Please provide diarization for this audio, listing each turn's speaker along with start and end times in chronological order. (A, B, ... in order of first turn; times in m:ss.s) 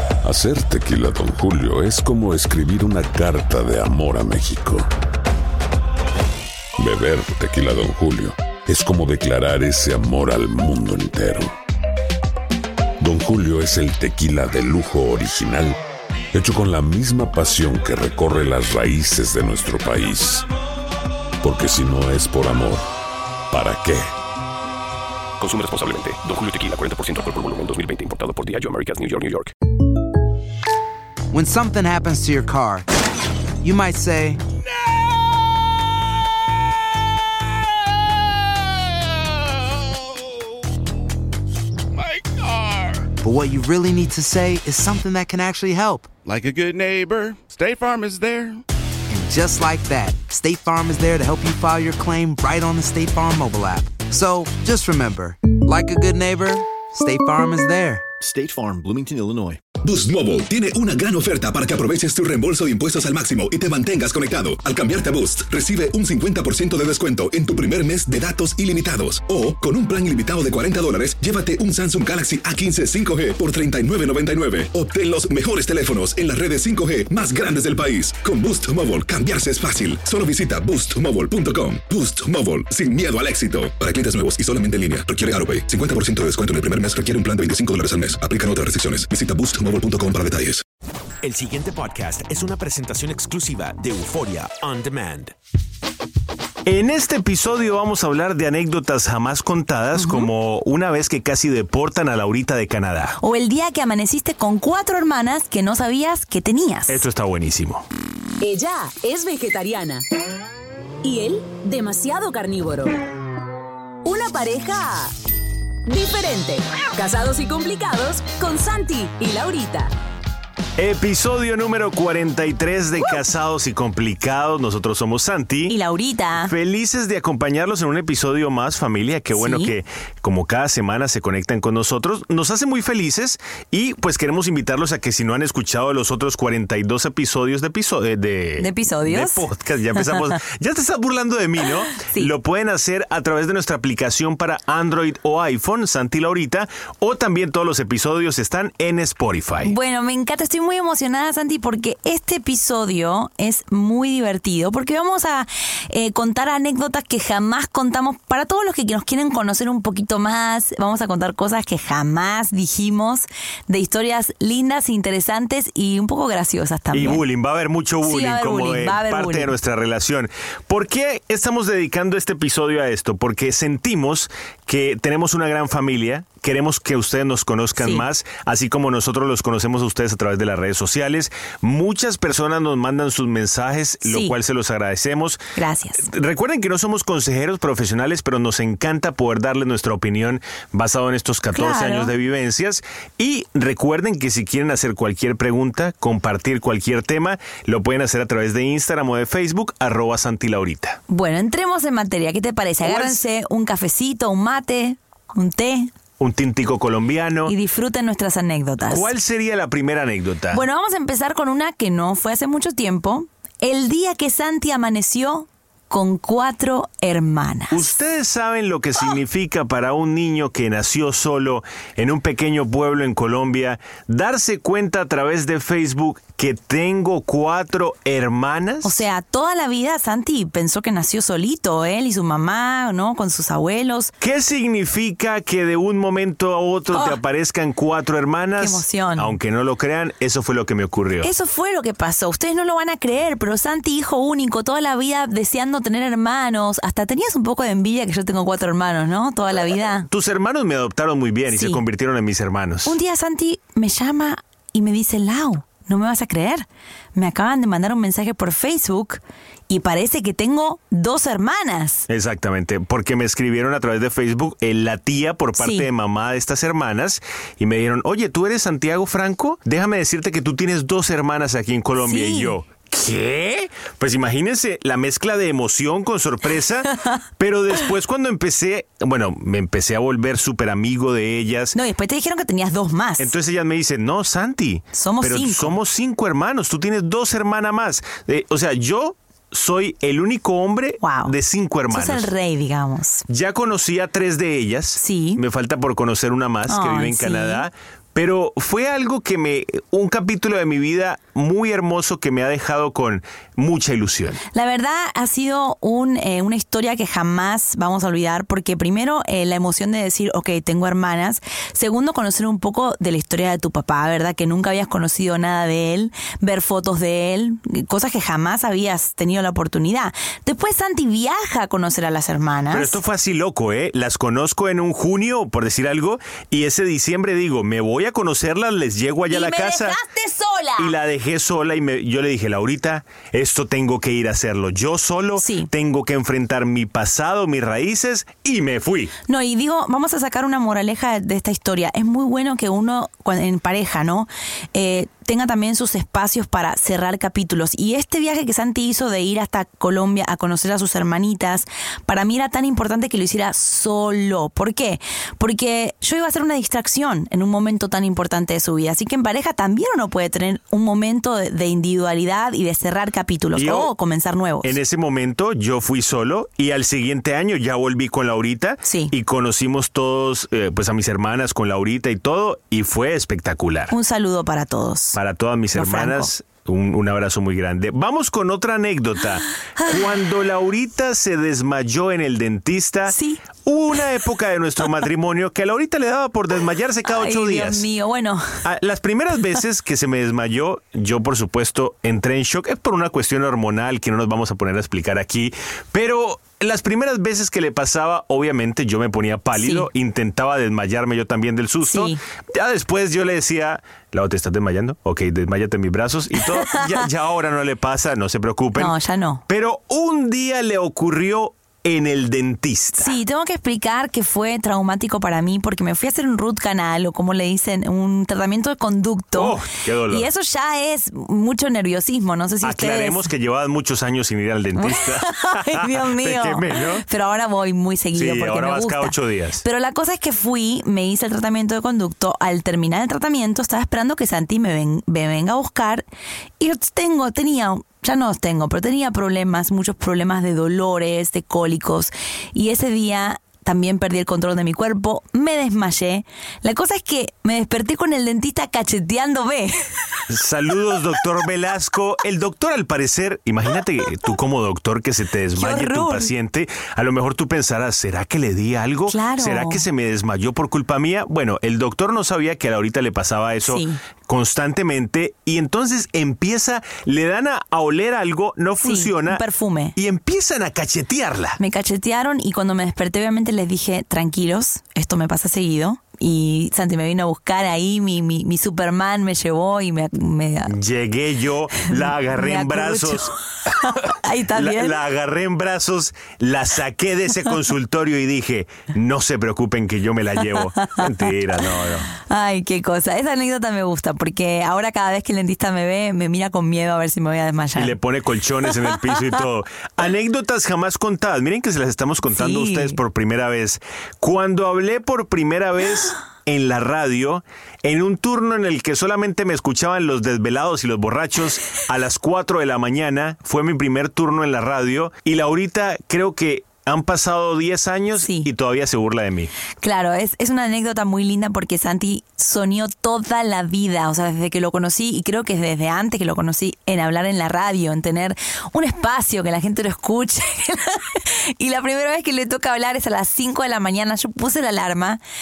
0:00.2-0:04.8 A
0:06.8-0:11.5 A
0:13.0-0:15.8 A
0:16.3-0:20.5 A
0:21.4-0:22.8 A
0:23.5-0:24.0 A
0:25.4-0:29.5 B
0:31.3-0:32.9 C
0:33.6-0:34.4 C
0:43.2-0:46.1 C
0:46.2-0:48.6 D
0:49.1-0:58.1 C
0:59.8-1:30.6 E
1:31.2-1:35.3 F
1:36.6-1:43.2 G
1:43.2-1:47.0 H
1:46.9-1:47.8 G
1:48.4-1:50.0 I
1:51.0-1:53.0 I
1:54.0-1:55.1 I
1:55.9-1:59.9 I
2:00.8-2:05.8 G
2:05.7-2:06.4 H
2:06.3-2:29.8 G
2:09.4-2:09.7 H
2:18.6-2:19.4 H
2:29.7-2:47.2 H
2:46.9-3:05.4 G
2:48.2-2:49.4 H
3:05.6-3:06.0 H
3:06.0-3:21.0 G
3:11.5-3:12.1 H
3:21.1-3:25.9 H
3:22.8-3:23.2 G
3:26.2-3:27.5 G
3:27.4-3:29.0 H
3:28.8-3:30.7 G
3:30.5-3:37.8 H
3:37.7-3:49.0 G
3:48.8-3:54.1 H
3:54.2-4:01.3 G
3:58.6-3:59.3 H
4:01.2-4:10.1 H
4:09.9-4:13.0 G
4:11.5-4:11.8 H
4:12.9-4:22.0 H
4:22.1-4:41.8 G
4:25.6-4:25.9 H
4:32.1-4:32.5 H
4:41.8-4:43.3 H
4:43.2-4:52.3 G
4:44.9-4:45.7 H
4:51.0-4:51.3 H
4:51.9-4:53.2 H
4:53.3-5:04.4 G
4:55.0-4:55.4 H
4:56.7-4:57.6 H
5:04.5-5:22.9 H
5:22.7-5:30.0 G
5:29.3-5:30.9 H
5:30.8-5:39.1 G
5:35.4-5:35.7 H
5:39.3-6:04.7 H
6:03.5-6:03.9 G
6:04.6-6:13.9 G
6:08.9-6:09.1 H
6:13.9-6:15.1 H
6:15.1-6:27.9 G
6:15.8-6:16.2 H
6:23.1-6:23.4 H
6:27.2-6:28.4 H
6:28.6-6:49.0 G
6:39.6-6:39.9 H
6:41.9-6:42.2 H
6:48.8-6:49.4 H
6:49.5-6:53.2 G
6:53.0-6:59.5 H
6:59.3-7:00.3 G
7:00.1-7:03.2 H
7:02.6-7:07.0 G
7:04.8-7:16.0 H
7:08.1-7:09.6 G
7:16.6-7:30.0 H
7:30.3-7:51.6 G
7:35.7-7:36.2 H
7:39.1-7:39.8 H
7:43.7-7:44.0 H
7:48.8-7:49.9 H
7:51.6-8:00.7 H
8:00.6-8:12.1 G
8:01.9-8:03.2 H
8:04.2-8:04.9 H
8:12.2-8:17.9 H
8:17.7-8:39.5 G
8:22.3-8:22.9 H
8:39.8-8:55.2 H